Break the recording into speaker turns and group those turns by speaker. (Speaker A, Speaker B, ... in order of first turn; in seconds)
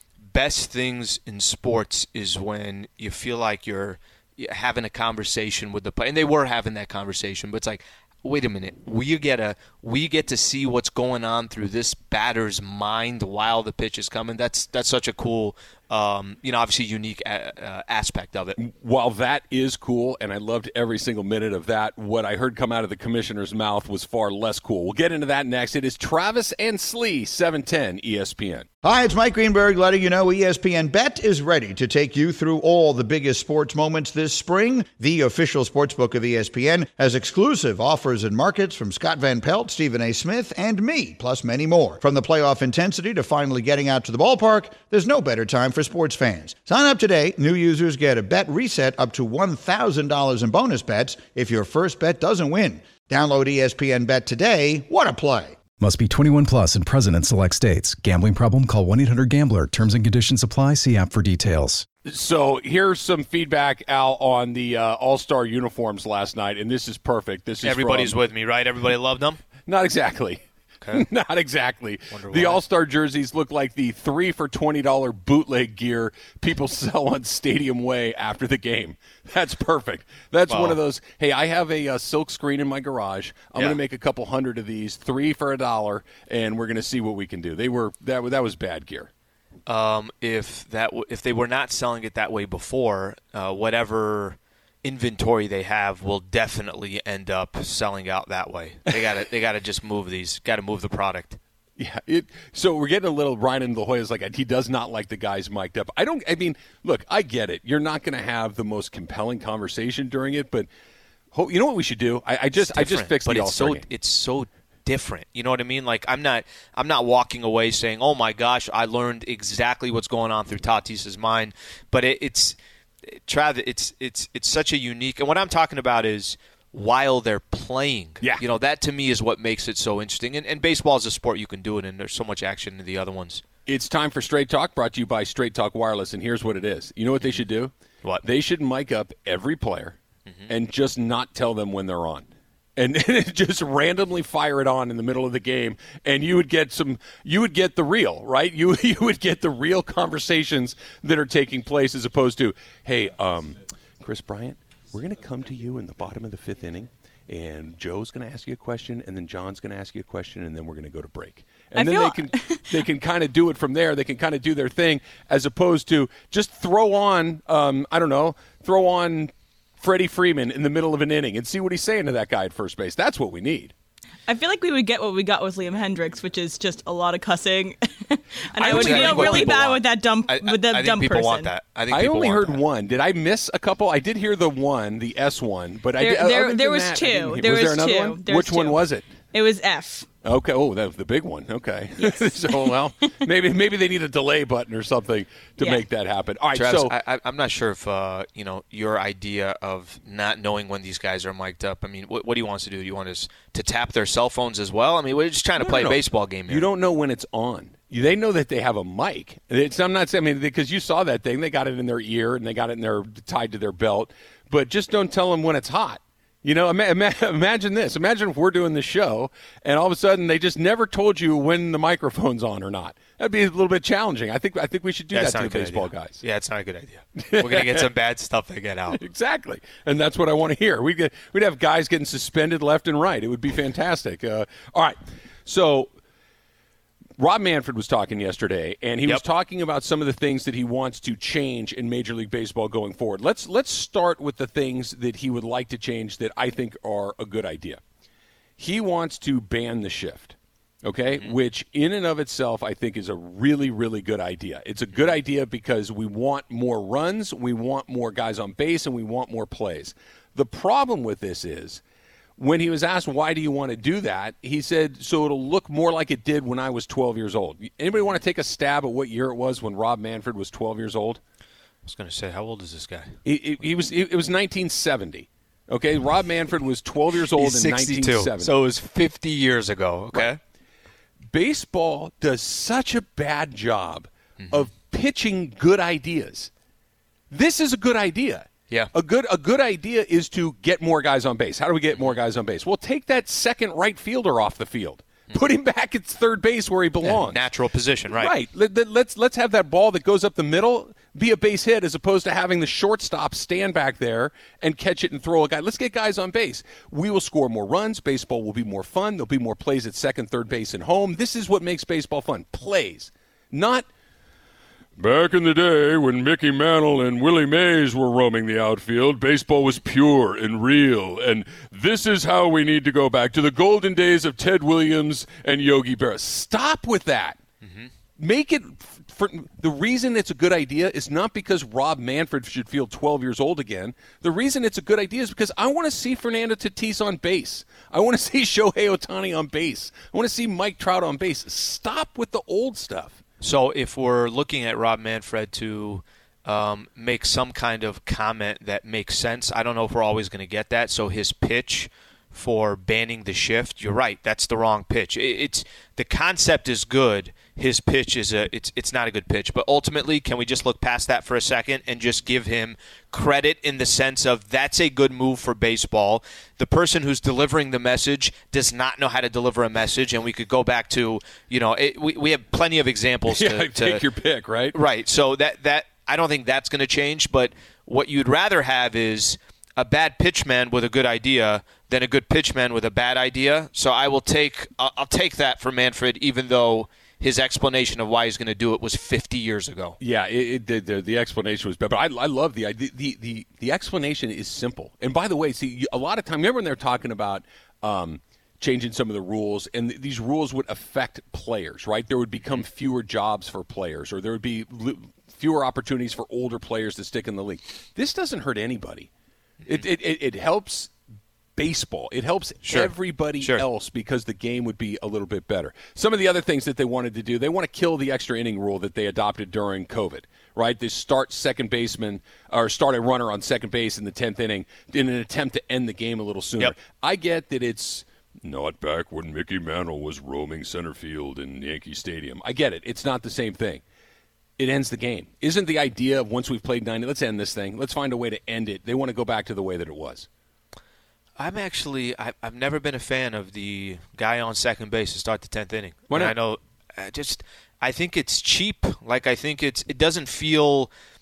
Speaker A: 0.3-18.6, 67.6-69.4, 72.1-72.6, 80.5-80.8, 89.7-101.4, 112.6-122.6, 123.1-133.4, 178.6-182.6, 196.5-206.7, 225.1-229.0, 271.9-273.1, 277.4-280.4, 284.4-284.7, 291.9-292.2, 297.0-298.3, 327.6-327.9, 343.4-374.0, 374.7-390.0, 412.6-413.6, 441.4-450.9
Speaker B: 18.6-28.7, 62.0-68.2, 69.7-70.4, 70.9-89.1, 101.8-110.7, 111.3-113.9, 133.7-140.0, 140.5-173.7, 178.6-179.7, 181.9-189.1, 190.2-196.9, 205.6-226.2, 227.2-227.9, 228.9-235.9, 237.2-247.8, 248.6-261.8, 262.4-271.2, 273.2-278.5, 281.3-286.5, 287.3-297.4, 298.1-313.9, 315.0-327.4, 328.2-343.2, 373.3-374.8, 390.0-409.1, 409.7-410.9, 411.6-433.8, 434.6-440.3, 446.1-446.4
Speaker C: 28.8-55.6
Speaker D: 55.8-61.9
Speaker E: 161.7-162.6, 174.3-181.5, 186.0-190.1, 192.0-192.7